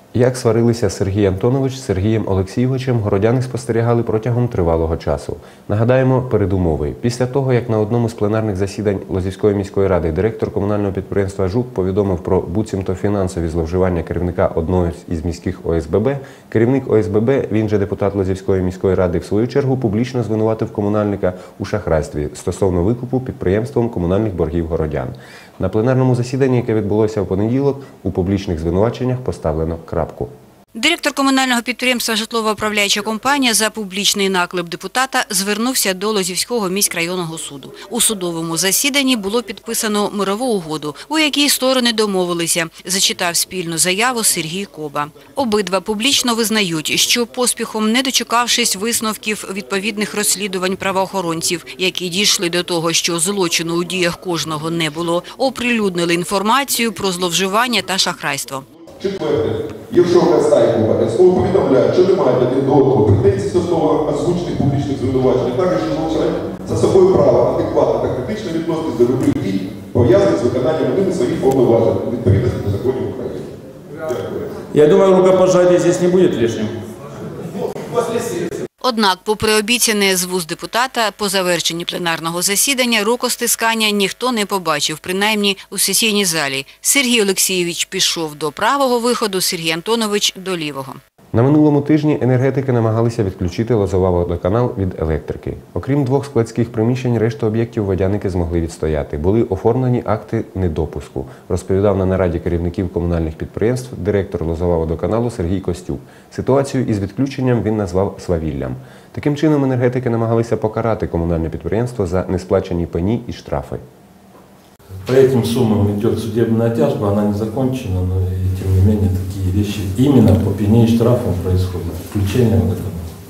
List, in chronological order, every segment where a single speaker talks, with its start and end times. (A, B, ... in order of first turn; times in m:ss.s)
0:00.2-0:30.3 A
0:30.8-0:58.7 B
0:59.0-1:13.5 C
1:14.0-1:14.5 C
1:14.7-1:16.7 D
1:18.8-1:31.0 B
1:31.3-1:53.8 A
1:55.0-2:03.1 E